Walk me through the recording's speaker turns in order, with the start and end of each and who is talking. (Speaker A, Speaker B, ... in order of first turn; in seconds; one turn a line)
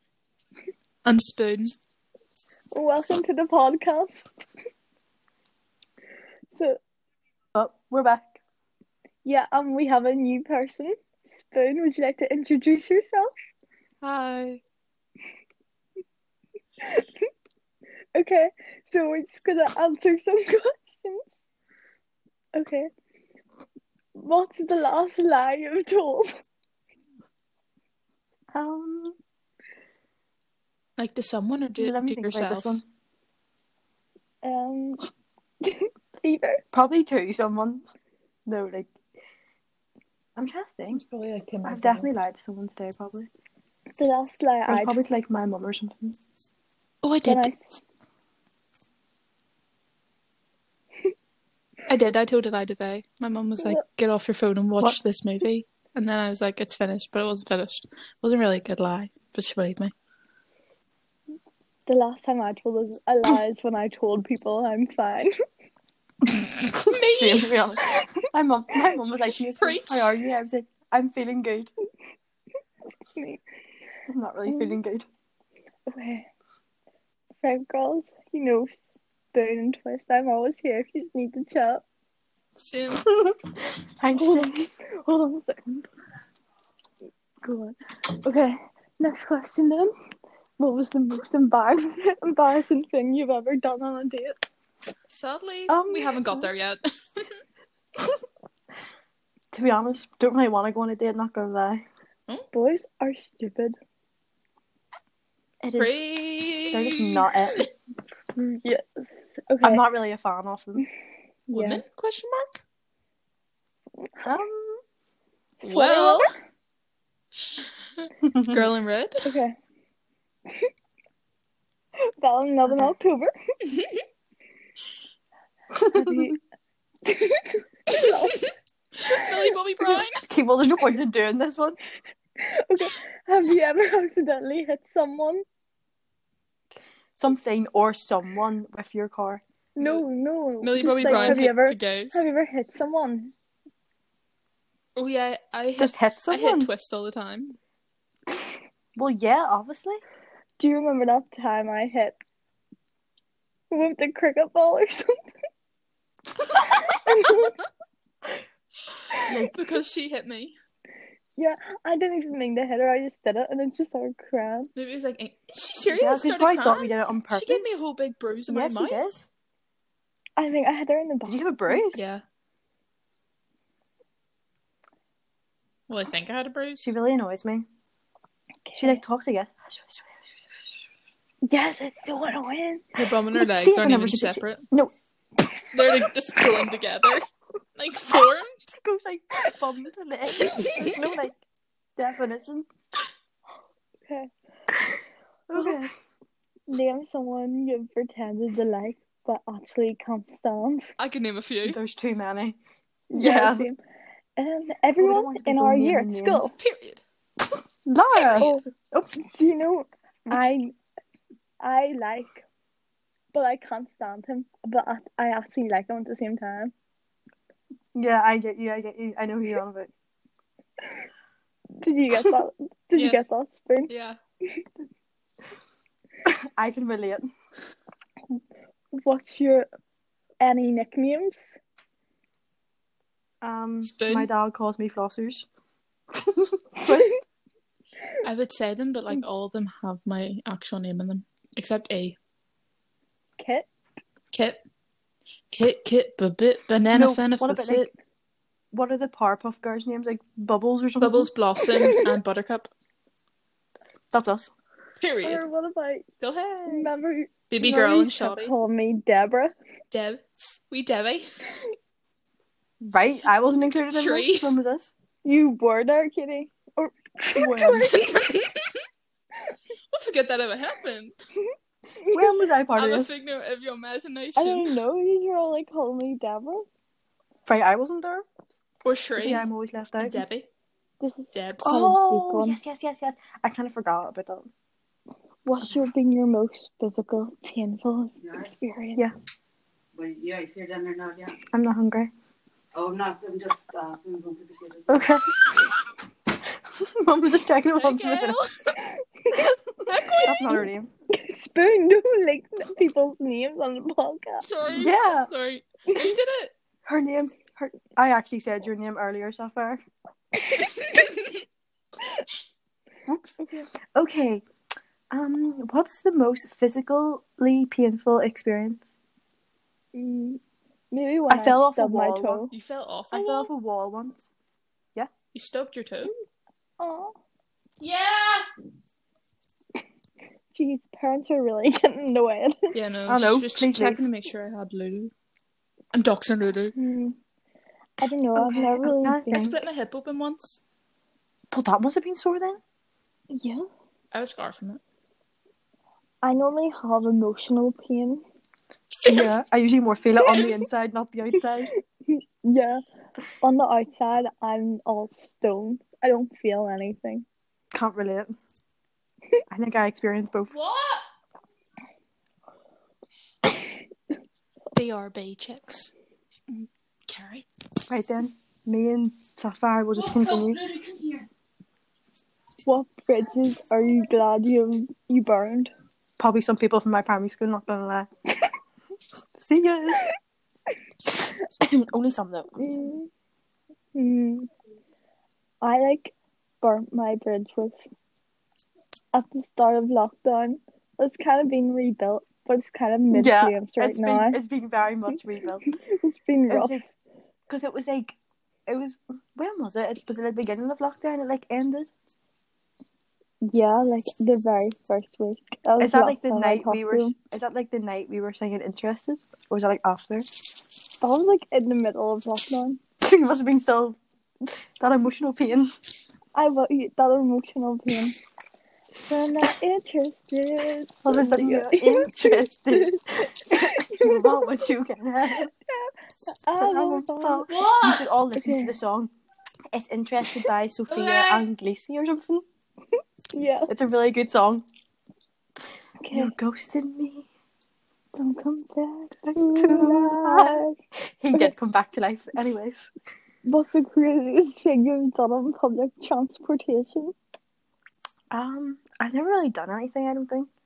Speaker A: 1.0-1.7
Speaker B: 2.7-4.3
Speaker B: 6.5-6.8
Speaker C: 7.5-8.4
Speaker B: 9.2-13.3
Speaker A: 14.0-14.6
Speaker B: 18.1-21.3
Speaker B: 22.5-22.9
Speaker B: 24.1-26.3
Speaker C: 28.5-29.1
Speaker A: 31.0-32.8
Speaker C: 31.8-32.8
Speaker B: 34.4-35.0
Speaker B: 35.6-36.6
Speaker C: 36.7-37.8
Speaker C: 38.5-38.9
Speaker C: 40.4-41.0
Speaker A: 40.9-42.1
Speaker C: 41.6-43.3
Speaker B: 44.0-45.0
Speaker C: 44.7-46.2
Speaker A: 47.0-47.5
Speaker B: 47.2-47.7
Speaker A: 51.9-59.9
Speaker B: 61.9-65.3
Speaker A: 66.7-67.5
Speaker C: 66.7-71.7
Speaker A: 69.6-70.1
Speaker B: 73.1-73.4
Speaker C: 74.1-75.0
Speaker B: 74.5-74.8
Speaker B: 75.9-76.3
Speaker B: 77.4-81.8
Speaker A: 82.6-83.1
Speaker C: 83.1-83.3
Speaker C: 84.0-84.7
Speaker B: 84.1-85.9
Speaker B: 87.4-89.9
Speaker B: 90.6-94.4
Speaker A: 95.1-97.4
Speaker C: 95.7-96.5
Speaker C: 99.5-101.8
Speaker B: 102.5-103.8
Speaker C: 105.6-106.0
Speaker A: 105.7-107.7
Speaker C: 106.7-107.6
Speaker B: 108.3-109.8
Speaker C: 109.6-110.8
Speaker B: 111.5-111.8
Speaker A: 111.5-112.6
Speaker B: 114.1-114.4
Speaker C: 114.2-114.8
Speaker B: 115.6-116.3
Speaker A: 115.6-116.3
Speaker A: 118.0-119.2
Speaker C: 118.2-118.7
Speaker B: 119.2-119.5
Speaker B: 122.2-123.3
Speaker A: 123.7-124.0
Speaker C: 125.8-126.2
Speaker B: 125.9-126.4
Speaker B: 127.0-128.4
Speaker A: 127.9-130.2
Speaker C: 130.2-131.8
Speaker B: 132.4-135.4
Speaker C: 137.2-139.4
Speaker B: 139.8-143.3
Speaker A: 139.8-140.0
Speaker A: 140.6-142.3
Speaker C: 140.8-141.4
Speaker A: 144.9-147.6
Speaker C: 145.8-146.7
Speaker C: 148.9-150.0
Speaker B: 150.6-152.2
Speaker B: 153.7-155.1
Speaker B: 156.4-157.6
Speaker C: 159.3-159.6
Speaker A: 159.5-160.5
Speaker B: 161.4-164.7
Speaker A: 164.7-169.1
Speaker C: 165.9-167.9
Speaker C: 168.5-169.3
Speaker B: 170.4-171.8
Speaker C: 171.2-172.1
Speaker A: 171.9-172.2
Speaker A: 175.9-176.9
Speaker C: 176.8-177.7
Speaker B: 178.7-179.0
Speaker C: 178.8-180.1
Speaker B: 181.4-182.8
Speaker A: 182.9-184.6
Speaker C: 183.3-184.9
Speaker A: 185.7-188.7
Speaker C: 188.8-191.3
Speaker A: 190.4-190.9
Speaker C: 192.0-192.7
Speaker C: 195.5-195.9
Speaker B: 195.5-195.8
Speaker B: 196.7-200.9
Speaker A: 201.0-201.8
Speaker C: 201.6-202.6
Speaker B: 203.1-203.8
Speaker C: 203.1-203.7
Speaker B: 204.4-206.5
Speaker C: 205.0-206.5
Speaker A: 206.6-207.0
Speaker C: 207.8-209.1
Speaker B: 208.4-210.7
Speaker C: 210.3-210.6
Speaker B: 211.6-212.4
Speaker B: 213.3-216.7
Speaker C: 217.9-219.9
Speaker B: 221.8-223.9
Speaker A: 222.9-223.2
Speaker A: 223.9-224.2
Speaker C: 226.2-227.2
Speaker B: 228.9-229.7
Speaker B: 230.4-231.6
Speaker C: 233.4-235.5
Speaker A: 233.8-234.3
Speaker C: 236.2-237.2
Speaker A: 238.2-242.2
Speaker B: 243.4-243.7
Speaker A: 244.3-244.6
Speaker A: 245.5-247.9
Speaker C: 246.9-247.9
Speaker C: 248.7-251.3
Speaker A: 251.0-252.7
Speaker B: 251.8-252.1
Speaker C: 254.1-254.5
Speaker A: 255.0-255.4
Speaker B: 255.2-256.1
Speaker A: 256.2-256.9
Speaker B: 256.7-259.5
Speaker A: 257.5-258.5
Speaker A: 259.9-261.4
Speaker C: 262.8-264.9
Speaker A: 263.9-264.6
Speaker B: 265.2-268.1
Speaker C: 267.3-268.0
Speaker A: 267.8-268.8
Speaker A: 269.9-271.1
Speaker B: 272.0-272.4
Speaker C: 272.1-273.2
Speaker A: 272.7-274.7
Speaker B: 274.4-276.6
Speaker C: 277.4-278.2
Speaker A: 278.8-279.5
Speaker C: 279.2-280.2
Speaker A: 280.0-280.5
Speaker B: 281.0-282.6
Speaker A: 281.3-281.8
Speaker C: 281.6-284.5
Speaker B: 285.4-289.0
Speaker D: 290.0-291.3
Speaker C: 291.4-292.1
Speaker D: 292.8-295.0
Speaker C: 294.9-295.7
Speaker C: 296.8-298.4
Speaker A: 297.8-298.8
Speaker B: 298.9-299.5
Speaker A: 299.8-300.5
Speaker C: 300.2-300.9
Speaker B: 301.1-304.5
Speaker A: 304.4-306.5
Speaker C: 304.7-305.3
Speaker C: 306.8-309.8
Speaker B: 310.4-311.3
Speaker A: 310.6-311.4
Speaker C: 313.1-314.4
Speaker C: 315.1-318.9
Speaker B: 319.9-322.5
Speaker C: 321.3-322.4
Speaker A: 322.5-323.5
Speaker C: 323.1-324.3
Speaker A: 325.3-326.1
Speaker B: 326.8-327.1
Speaker A: 327.8-328.4
Speaker B: 330.5-332.7
Speaker A: 332.7-335.1
Speaker C: 333.1-334.0
Speaker A: 335.9-336.7
Speaker B: 336.7-337.2
Speaker B: 338.0-339.6
Speaker C: 338.3-339.6
Speaker A: 339.3-340.6
Speaker C: 341.5-342.6
Speaker B: 343.3-343.6
Speaker A: 344.1-344.8
Speaker B: 346.2-348.2
Speaker A: 349.0-349.3
Speaker C: 349.1-351.7
Speaker B: 352.1-352.8
Speaker B: 353.4-357.2
Speaker C: 357.7-358.3
Speaker C: 359.5-360.5
Speaker A: 360.5-361.1
Speaker A: 364.7-365.9
Speaker A: 366.5-367.4
Speaker C: 367.9-370.6
Speaker A: 369.9-371.2
Speaker B: 372.6-375.7
Speaker C: 376.2-378.1
Speaker C: 379.4-380.1
Speaker C: 381.5-382.6
Speaker B: 382.6-383.1
Speaker B: 383.9-384.5
Speaker B: 385.6-387.8
Speaker B: 389.1-394.4
Speaker C: 393.1-395.7
Speaker B: 395.7-396.8
Speaker C: 396.5-396.8
Speaker C: 397.5-398.1
Speaker C: 398.6-401.9
Speaker B: 403.5-407.1
Speaker C: 405.8-410.3
Speaker B: 411.0-412.8
Speaker C: 413.0-414.0
Speaker C: 414.8-415.7
Speaker B: 416.3-418.2
Speaker B: 419.1-424.6
Speaker C: 421.0-425.5
Speaker B: 425.3-427.5
Speaker C: 426.6-429.1
Speaker A: 427.5-428.1
Speaker B: 428.3-428.7
Speaker C: 429.7-432.4
Speaker A: 430.9-431.5
Speaker B: 433.3-433.7
Speaker C: 433.7-434.6
Speaker B: 436.0-436.3
Speaker C: 436.1-437.3
Speaker B: 438.1-440.7
Speaker C: 439.2-440.6
Speaker C: 441.2-442.9
Speaker B: 443.4-447.1
Speaker C: 448.3-450.5